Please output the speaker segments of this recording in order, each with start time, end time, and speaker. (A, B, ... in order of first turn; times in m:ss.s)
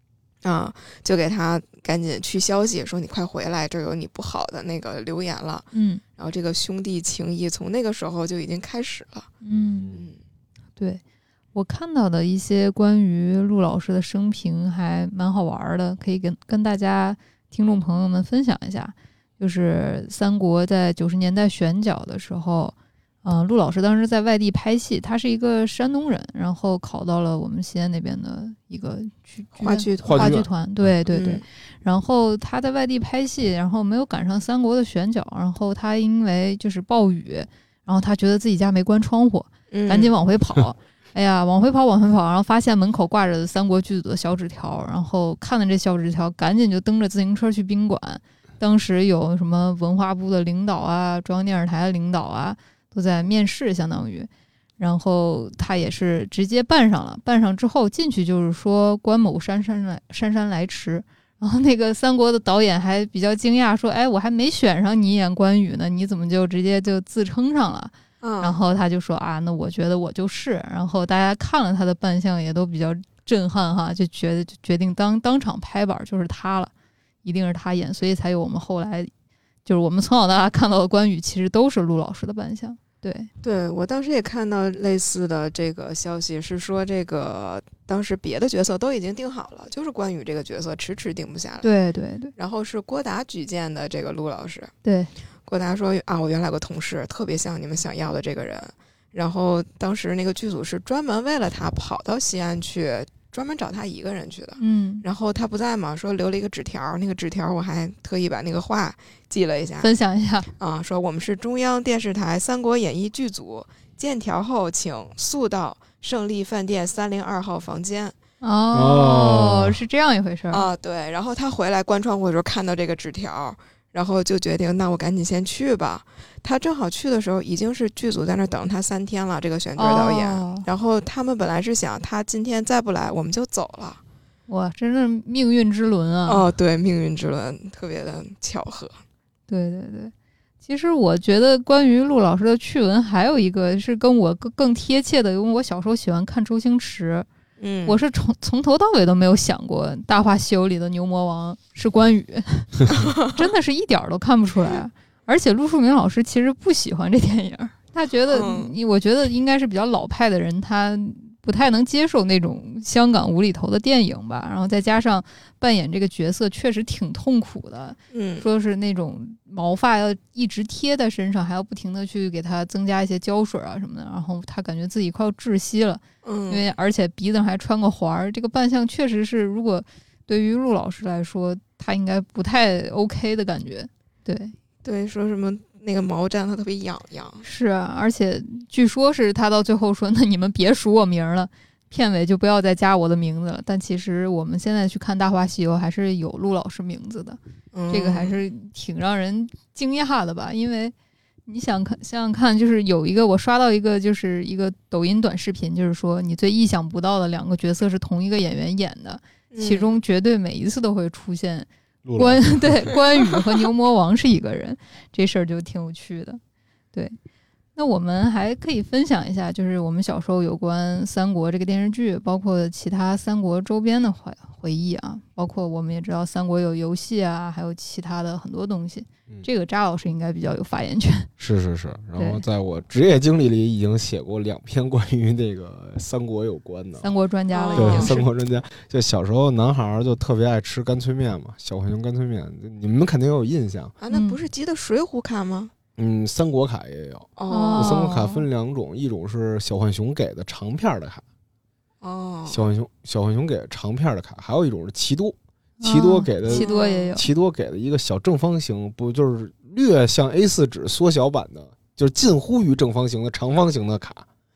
0:00.4-0:09.3 A
0:05.7-0:06.0 B
0:09.4-0:09.9 B
0:09.5-0:10.1 C
0:09.9-0:10.2 A
0:11.5-1:16.7 B
0:29.6-0:30.4 A
0:30.0-0:30.5 C
0:31.1-0:31.4 A
0:39.7-0:40.1 A
1:08.2-1:08.6 A
1:17.2-1:19.1 B
1:19.6-1:23.3 B
1:23.4-1:31.7 A
1:31.6-1:32.3 B
1:32.4-1:34.7 A
1:34.8-1:35.1 B
1:35.4-1:49.9 A
1:44.6-1:45.0 B
1:49.8-1:50.5 B
1:50.6-1:58.2 A
1:58.4-2:00.6 B
1:58.7-1:59.8 C
2:00.5-2:14.0 A
2:09.8-2:10.6 B
2:14.5-2:16.4 B
2:16.2-2:19.0 A
2:19.5-2:20.1 B
2:20.6-2:27.3 B
2:27.6-2:28.0 A
2:27.8-3:04.5 B
2:32.9-2:33.4 A
2:38.3-2:38.7 A
2:48.1-2:48.5 A
2:56.2-2:56.6 A
3:04.8-3:07.4 A
3:07.4-3:17.4 B
3:17.7-3:18.4 A
3:17.9-3:20.9 B
3:21.5-3:36.4 B
3:29.5-3:29.9 A
3:32.0-3:32.9 C
3:37.8-3:51.3 B
3:51.4-3:57.1 C
3:52.2-3:52.4 B
3:57.0-3:58.2 B
3:57.5-3:58.2 A
3:57.7-4:03.9 C
4:04.0-4:05.7 A
4:04.1-4:04.4 B
4:06.0-4:11.2 C
4:07.4-4:08.1 A
4:07.5-4:08.4 B
4:12.0-4:12.6 A
4:12.5-4:24.2 C
4:15.8-4:17.2 B
4:16.4-4:17.1 A